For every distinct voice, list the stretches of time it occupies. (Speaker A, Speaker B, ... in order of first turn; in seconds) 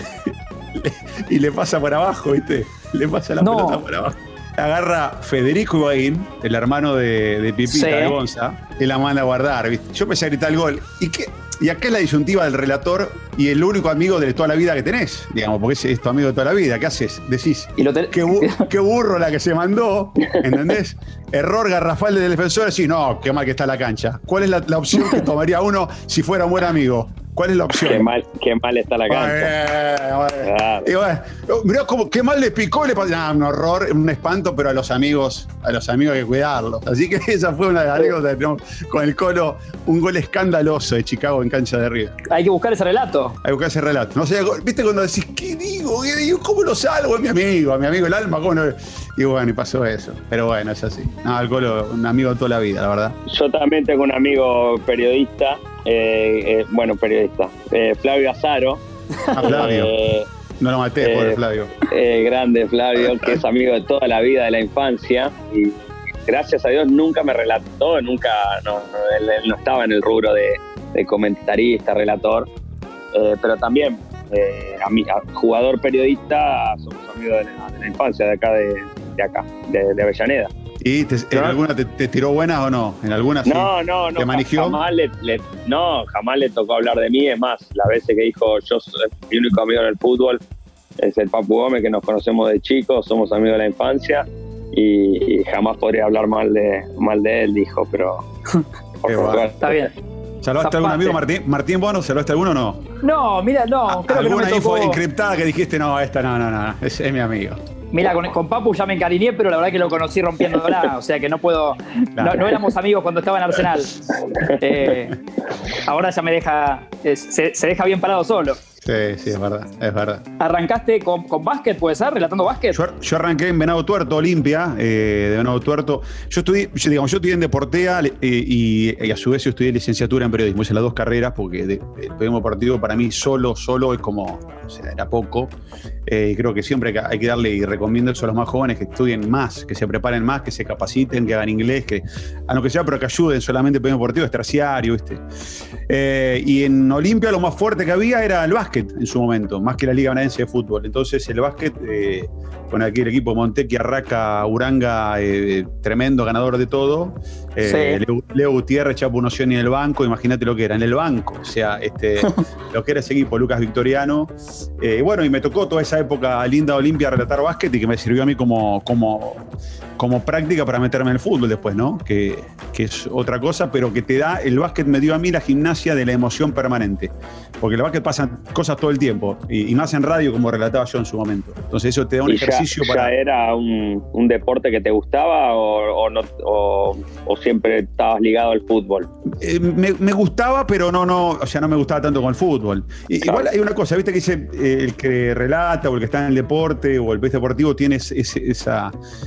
Speaker A: 0.2-28.1, 29.1-42.2, 43.4-53.1, 59.3-59.9, 60.6-61.7, 63.1-63.3, 80.8-84.8, 99.0-99.4, 100.4-102.8, 103.9-107.6, 112.2-112.4, 118.8-120.2, 122.7-135.5, 136.1-145.2, 145.9-169.4, 170.0-183.1, 189.3-198.9
Speaker B: 3.4-3.8, 7.7-8.1, 17.8-18.7, 42.3-43.4, 99.6-99.9, 100.6-101.2, 103.0-105.0, 107.9-115.2, 115.8-118.6, 120.4-122.8, 157.6-158.0
Speaker C: 27.8-29.5, 30.4-30.9, 53.2-58.8, 59.4-60.3, 61.0-72.5, 73.1-80.5, 83.5-90.4, 91.0-98.2, 99.0-99.9, 182.2-189.1